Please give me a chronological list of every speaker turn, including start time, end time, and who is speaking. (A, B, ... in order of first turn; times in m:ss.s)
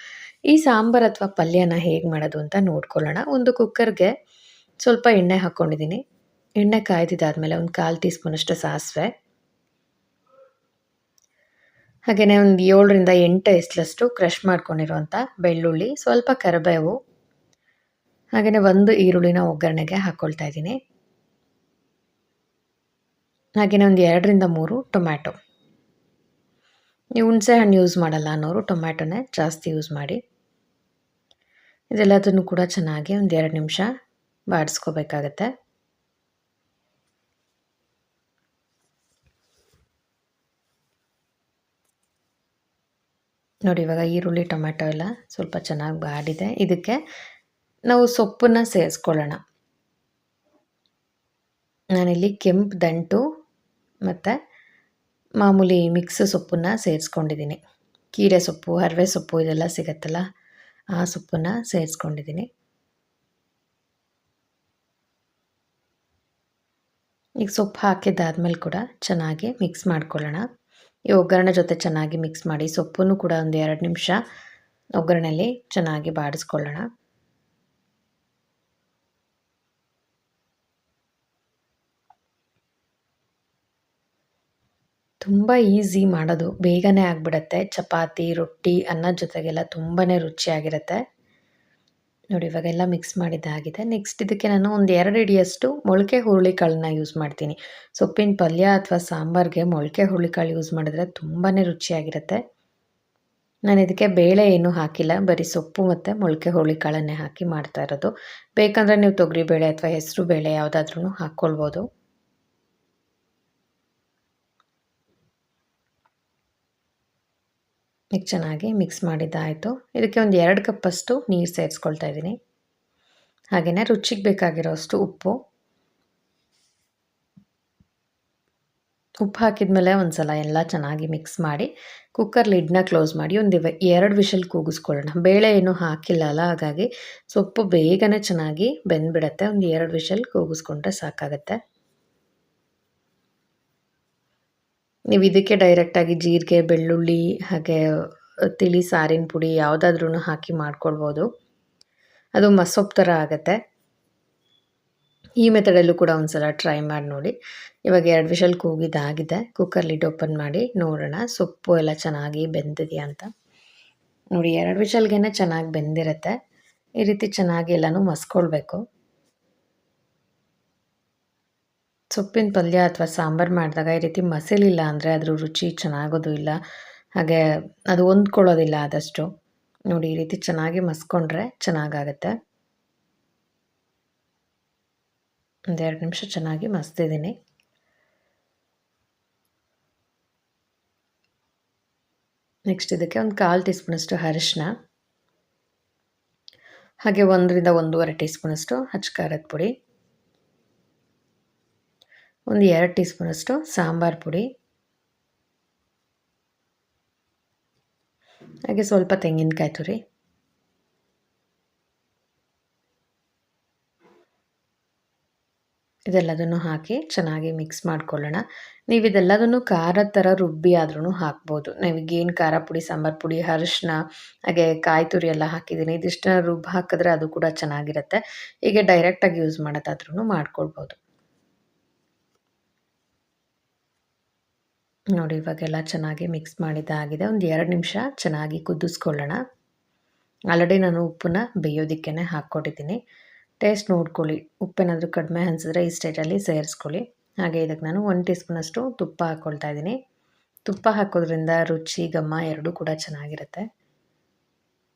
0:00.5-0:04.1 A
0:04.8-0:06.0 A
0:06.6-0:09.1 A
0:12.1-0:17.0 A
0:18.4-0:20.8 A
0:23.6-0:25.4 A
0:27.2-0:30.2 A
0:31.9-0:33.9 A
0:34.5-0:35.5 A
0:43.7-0:47.0 A
0:47.9-0:49.4 A
0:52.0-0:53.2 A
0:54.1-0:54.4 A
0:55.4-0:57.6 A
0:58.1-1:00.2 A
1:01.0-1:02.5 A
1:07.4-1:10.4 A
1:11.1-1:14.2 A
1:15.0-1:16.9 A
1:25.2-1:31.0 A
1:32.3-1:42.4 A
1:43.7-1:51.8 A
1:58.2-2:02.4 A
2:03.6-2:05.4 A
2:09.2-2:21.6 A
2:25.1-2:31.3 A
2:32.4-2:33.6 A
2:35.4-2:37.3 A
2:37.9-2:43.3 A
2:44.4-2:46.3 A
2:47.0-2:48.8 A
2:52.1-2:56.6 A
2:57.2-2:59.3 A
2:59.9-3:02.3 A
3:05.7-3:07.4 A
3:12.7-3:14.7 A
3:17.0-3:19.7 A
3:22.5-3:24.5 A
3:28.7-3:30.0 A
3:36.1-3:44.0 A
3:44.5-3:51.0 A
3:55.2-3:59.4 A
4:00.5-4:03.0 A
4:03.6-4:10.0 A
4:10.7-4:13.6 A